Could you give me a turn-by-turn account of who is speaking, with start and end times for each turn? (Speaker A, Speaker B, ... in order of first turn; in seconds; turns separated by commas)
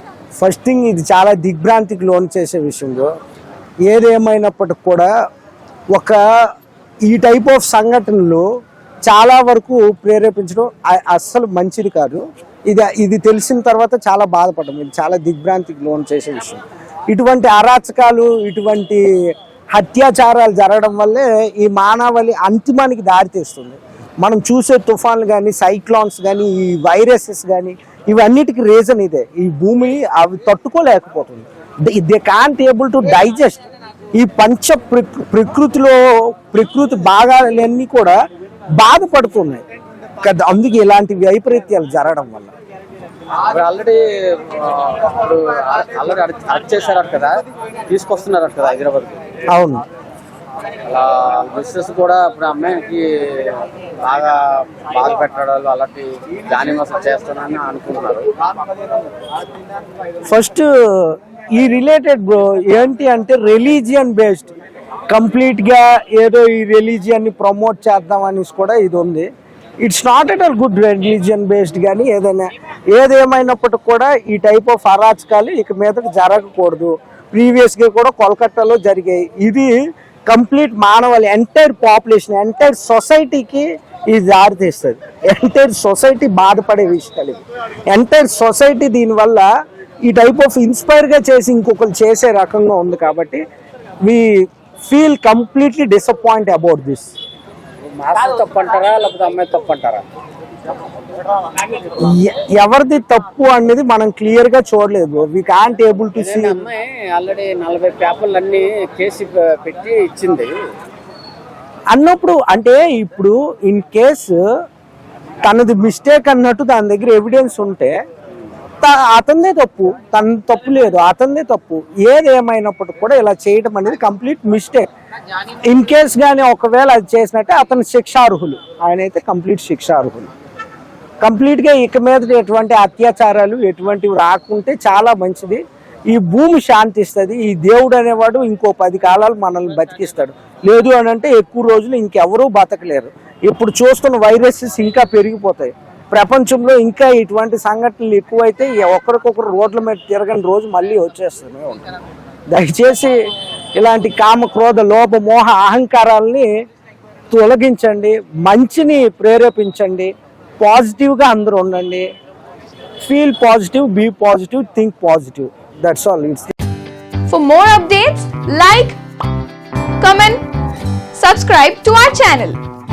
Speaker A: 0.4-3.1, Speaker A: 3.9-5.1, Speaker A: 5.9-6.2, Speaker A: 7.0-8.4, Speaker A: 9.1-19.0, Speaker A: 19.7-33.6, Speaker A: 34.2-36.0, Speaker A: 36.5-38.1, Speaker A: 38.8-39.6, Speaker A: 40.2-42.5, Speaker B: 43.4-47.3, Speaker B: 47.9-49.2, Speaker A: 49.5-49.8, Speaker B: 50.9-58.3, Speaker A: 60.2-64.5, Speaker A: 65.1-69.3, Speaker A: 69.8-79.7, Speaker A: 80.3-89.5, Speaker A: 90.0-93.4, Speaker A: 94.0-97.1, Speaker B: 97.8-100.0, Speaker A: 102.0-106.6, Speaker B: 106.1-110.5, Speaker A: 111.9-114.4, Speaker A: 115.4-118.0, Speaker A: 118.8-124.8, Speaker A: 125.6-130.3, Speaker A: 131.2-151.9, Speaker A: 152.5-153.1, Speaker A: 153.8-156.5, Speaker A: 157.3-162.1, Speaker A: 163.0-166.5, Speaker C: 167.3-169.0, Speaker C: 170.0-170.4, Speaker C: 171.1-172.6